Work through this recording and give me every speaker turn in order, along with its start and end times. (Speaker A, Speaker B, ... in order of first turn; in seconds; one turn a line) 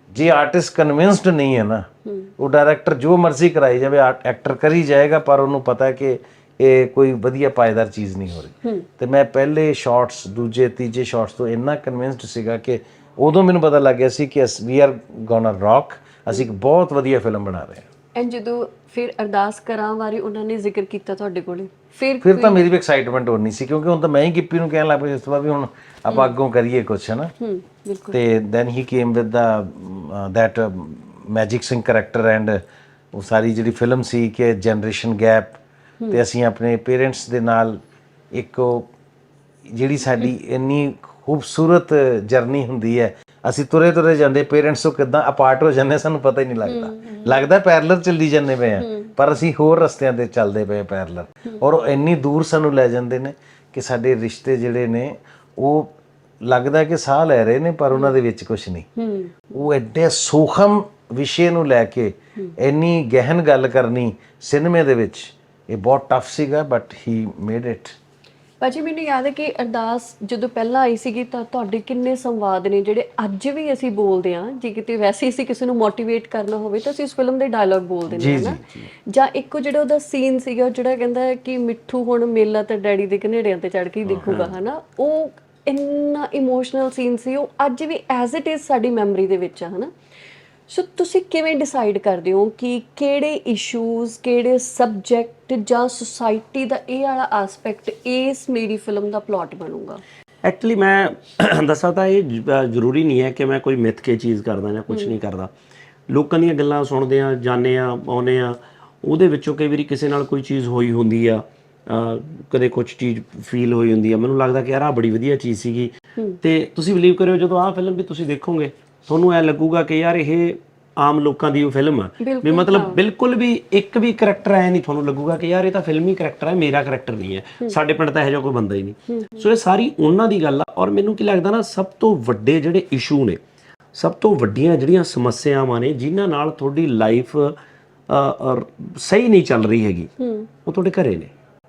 Speaker A: 0.1-17.9
Speaker B: 2.1-2.3
Speaker B: 18.2-22.6
Speaker A: 22.2-27.3
Speaker B: 26.1-26.3
Speaker B: 27.4-28.2
Speaker A: 28.1-32.6
Speaker A: 33.1-37.8
Speaker A: 38.3-38.9
Speaker A: 39.7-58.9
Speaker B: 46.7-47.4
Speaker B: 48.8-49.2
Speaker B: 59.0-59.6
Speaker A: 59.5-68.0
Speaker B: 68.6-89.9
Speaker A: 78.1-78.8
Speaker C: 78.2-78.5
Speaker C: 84.2-84.5
Speaker B: 90.7-100.0
Speaker C: 100.4-105.5
Speaker B: 104.9-105.2
Speaker C: 106.1-133.4
Speaker B: 122.2-123.0
Speaker B: 129.1-129.5
Speaker C: 133.9-137.6
Speaker C: 138.1-140.1
Speaker B: 140.2-140.5
Speaker C: 140.7-141.3